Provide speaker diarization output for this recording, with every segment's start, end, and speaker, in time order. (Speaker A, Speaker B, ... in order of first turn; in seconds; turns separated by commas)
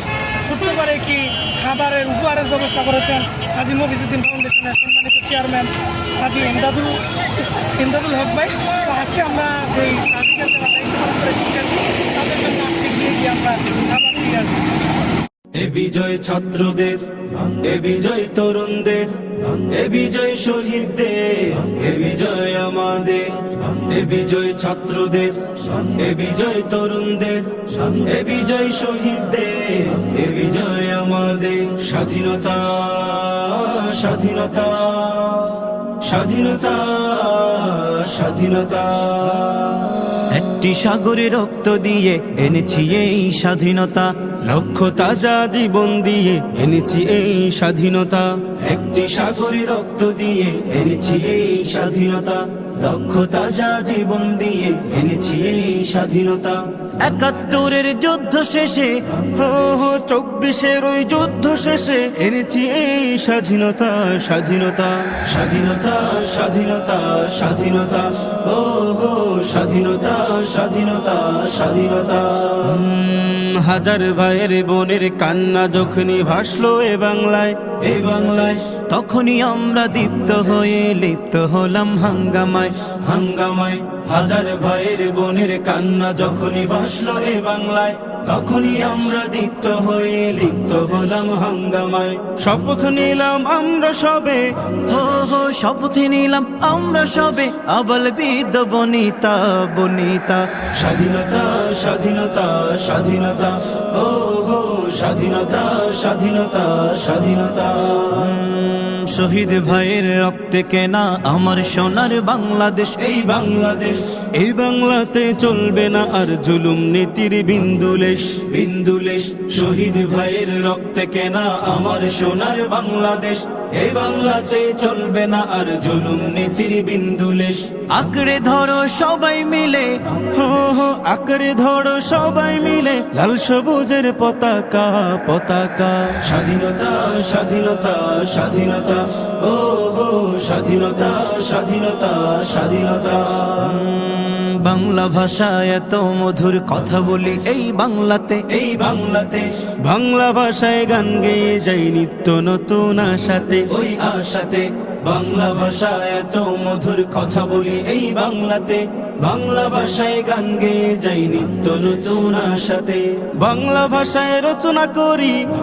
Speaker A: 0.4-14.6, Speaker B: 15.5-39.9, Speaker C: 40.3-44.1, Speaker B: 44.4-56.6, Speaker C: 57.0-59.0, Speaker B: 59.3-78.8, Speaker C: 78.9-82.7, Speaker B: 82.8-94.5, Speaker C: 94.9-100.5, Speaker B: 100.7-108.3, Speaker C: 108.1-113.0, Speaker B: 113.0-127.7, Speaker C: 127.9-129.9, Speaker B: 130.1-143.6, Speaker C: 143.5-148.5, Speaker B: 148.5-165.4